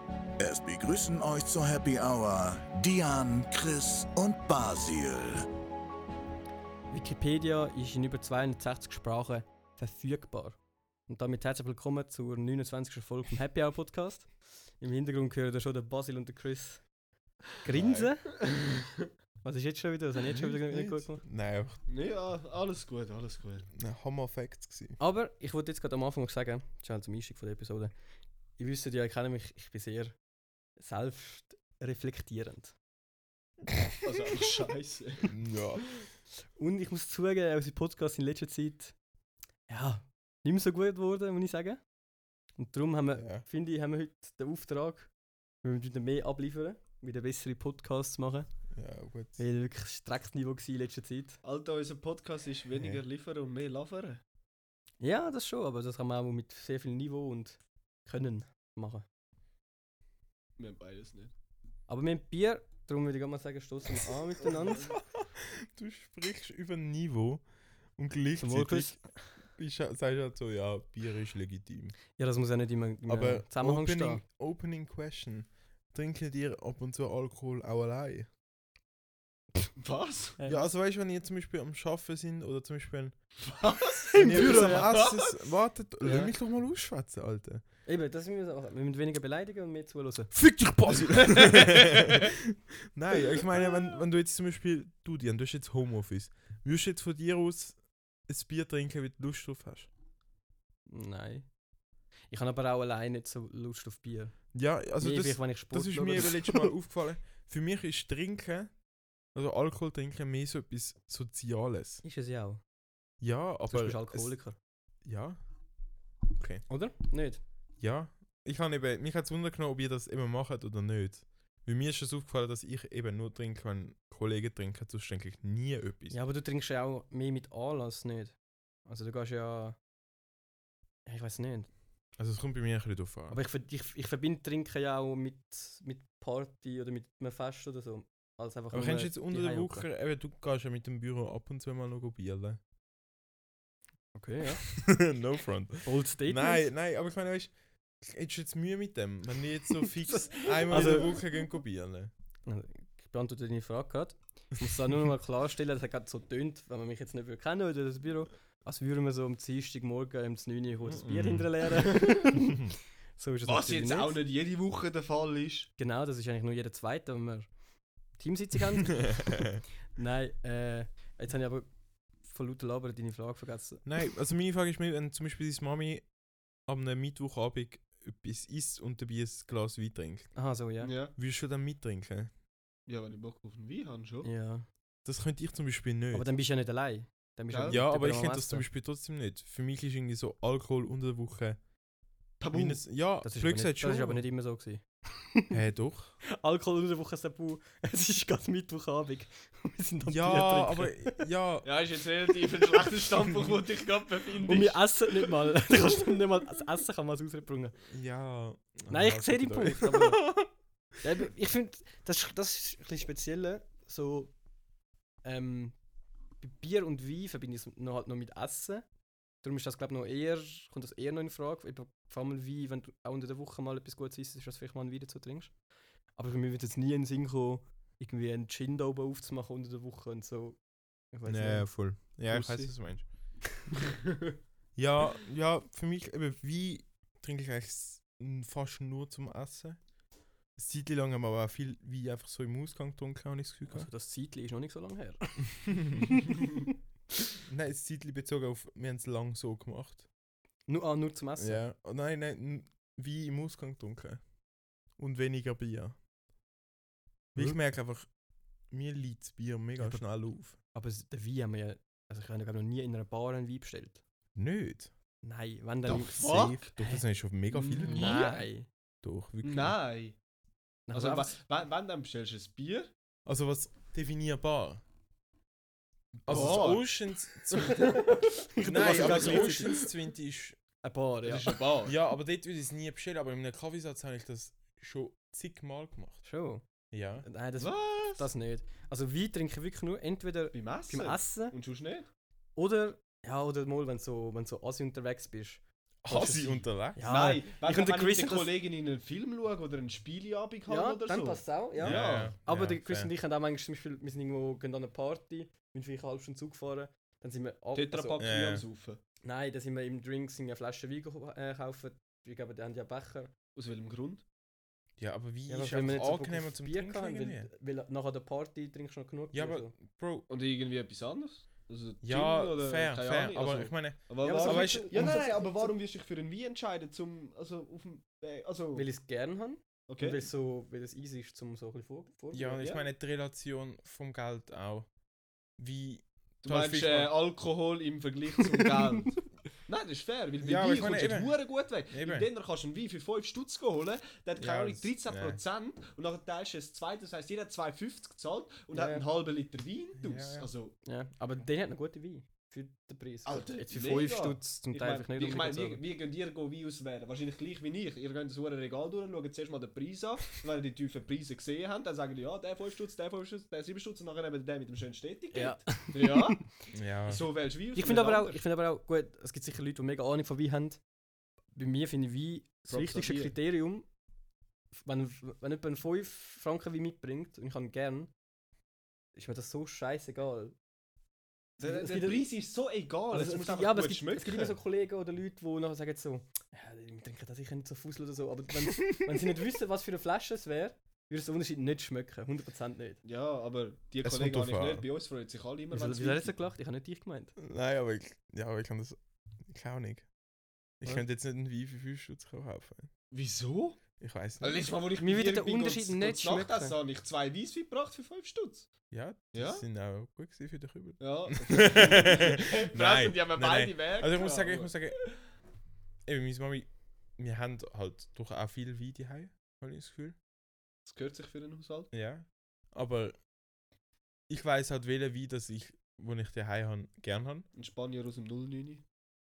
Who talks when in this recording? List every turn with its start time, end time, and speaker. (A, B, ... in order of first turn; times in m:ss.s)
0:00.4-0:05.4 A
0:06.9-0:14.3 B
0:14.8-0:16.8 B
0:17.6-0:18.2 B
0:17.7-0:18.1 C
0:18.5-0:18.8 D
0:19.4-0:21.2 B
0:20.2-0:21.8 C
0:21.9-0:23.7 D
0:23.8-0:25.0 C
0:25.0-0:27.9 B
0:28.6-0:30.1 B
0:30.8-0:32.7 B
0:34.0-0:35.3 D
0:35.3-0:35.9 C
0:36.5-0:38.9 B
0:39.7-0:41.8 B
0:42.6-0:45.1 B
0:43.2-0:43.4 C
0:45.6-0:48.5 B
0:48.7-0:49.4 C
0:49.4-0:51.4 B
0:51.4-0:54.2 D
0:55.0-0:59.0 B
1:00.6-1:01.3 D
1:01.9-1:04.9 B
1:04.5-1:04.9 D
1:04.8-1:12.0 C
1:08.4-1:09.3 B
1:12.2-1:14.2 B
1:13.1-1:18.3 C
1:19.8-1:20.4 D
1:20.4-1:20.6 B
1:20.5-1:23.4 C
1:23.4-1:25.4 D
1:24.1-1:24.9 B
1:24.1-1:27.6 C
1:26.0-1:26.3 D
1:27.8-1:30.3 B
1:30.3-1:39.9 C
1:31.2-1:31.6 D
1:40.9-1:41.5 B
1:42.3-1:44.4 B
1:44.5-1:48.7 C
1:45.0-1:46.7 B
1:49.3-1:52.0 C
1:52.0-1:52.6 B
1:53.2-1:54.3 C
1:53.7-1:54.6 B
1:55.0-1:55.4 C
1:56.4-1:56.6 C
1:56.7-1:57.4 B
1:57.8-2:06.2 C
2:06.1-2:09.8 B
2:11.0-2:11.7 B
2:12.2-2:13.4 C
2:13.3-2:19.9 B
2:18.7-2:22.6 C
2:24.1-2:24.6 B
2:24.6-2:32.1 C
2:25.8-2:26.7 B
2:30.4-2:31.1 D
2:30.7-2:31.1 B
2:32.4-2:44.2 B
2:40.8-2:41.6 C
2:43.4-2:45.7 D
2:45.8-2:47.5 B
2:48.2-2:51.7 B
2:49.0-2:49.6 C
2:52.2-2:53.8 B
2:53.8-2:56.1 C
2:56.6-3:00.4 C
3:00.3-3:00.9 B
3:00.8-3:01.1 D
3:01.2-3:02.3 C
3:02.9-3:04.3 D
3:04.2-3:04.7 B
3:05.0-3:06.3 C
3:06.1-3:08.7 B
3:07.5-3:07.8 D
3:07.7-3:11.6 C
3:12.4-3:12.8 D
3:12.5-3:14.2 C
3:13.2-3:15.5 B
3:15.5-3:16.2 C
3:16.2-3:21.2 B
3:20.0-3:21.7 C
3:21.6-3:25.2 D
3:24.4-3:27.8 B
3:27.9-3:30.5 C
3:28.9-3:30.3 B
3:31.0-3:34.3 B
3:35.2-3:35.7 B
3:36.4-3:38.8 B
3:39.4-3:45.5 B
3:46.1-3:50.6 B
3:51.1-3:51.8 B
3:51.2-3:53.0 C
3:52.3-3:52.7 D
3:54.8-3:59.8 C
4:00.6-4:03.9 C
4:03.7-4:05.7 B
4:05.8-4:06.1 C
4:07.4-4:10.0 C
4:10.7-4:11.6 B
4:11.4-4:14.2 C
4:15.0-4:16.0 C
4:17.3-4:18.1 C
4:18.7-4:20.6 C
4:19.8-4:20.0 B
4:20.7-4:24.0 B
4:24.3-4:24.9 C
4:25.2-4:27.0 B
4:25.8-4:26.7 D
4:26.2-4:28.1 C
4:27.5-4:28.4 D
4:27.8-4:28.7 B
4:29.0-4:29.7 C
4:29.4-4:30.2 D
4:30.9-4:31.4 B
4:30.9-4:32.9 D
4:33.2-4:34.8 C
4:36.2-4:36.9 D
4:36.2-4:38.0 C
4:36.3-4:36.6 B
4:37.6-4:39.9 B
4:37.6-4:38.0 D
4:38.6-4:40.6 C
4:38.7-4:39.8 D
4:40.8-4:41.6 B
4:41.2-4:41.9 D
4:41.8-4:46.2 C
4:46.2-4:46.6 B
4:46.9-4:47.2 C
4:47.2-4:51.5 B
4:47.6-4:48.3 D
4:50.5-4:52.1 D
4:52.6-4:58.5 B
4:56.0-4:57.0 C
4:57.0-5:02.3 D
5:00.7-5:08.2 B
5:01.8-5:03.1 C
5:07.7-5:09.0 D
5:08.2-5:08.6 C
5:09.2-5:13.3 B
5:13.5-5:14.2 D
5:15.0-5:17.5 C
5:15.5-5:19.7 B
5:19.3-5:20.3 C
5:20.3-5:28.8 D
5:22.0-5:25.2 C
5:24.2-5:25.7 B
5:28.7-5:32.6 B
5:29.9-5:30.2 D
5:32.3-5:34.9 C
5:32.6-5:32.9 D
5:35.6-5:37.1 C
5:36.4-5:50.7 D
5:38.6-5:39.2 B
5:40.4-5:41.3 C
5:41.9-5:42.3 C
5:44.4-5:45.4 C
5:48.7-5:49.0 B
5:50.0-5:50.5 C
5:50.8-5:55.8 B
5:53.2-6:06.5 D
6:05.3-6:06.4 B
6:06.7-6:07.2 C
6:07.0-6:08.4 D
6:07.7-6:10.8 B
6:11.5-6:13.9 B
6:12.7-6:13.3 D
6:14.8-6:18.1 B
6:19.1-6:20.5 B
6:21.6-6:24.6 D
6:21.6-6:22.3 B
6:23.1-6:33.0 B
6:33.0-6:36.3 D
6:34.0-6:34.8 C
6:35.7-6:37.3 B
6:37.4-6:40.1 C
6:40.8-6:42.9 C
6:43.1-6:43.8 D
6:44.0-6:44.7 C
6:44.4-6:48.7 D
6:45.0-6:46.8 B
6:48.9-6:55.1 C
6:49.3-6:49.6 D
6:51.0-6:55.2 D
6:56.0-7:00.2 C
7:00.8-7:01.9 D
7:01.9-7:03.1 C
7:04.3-7:07.5 C
7:07.5-7:08.8 D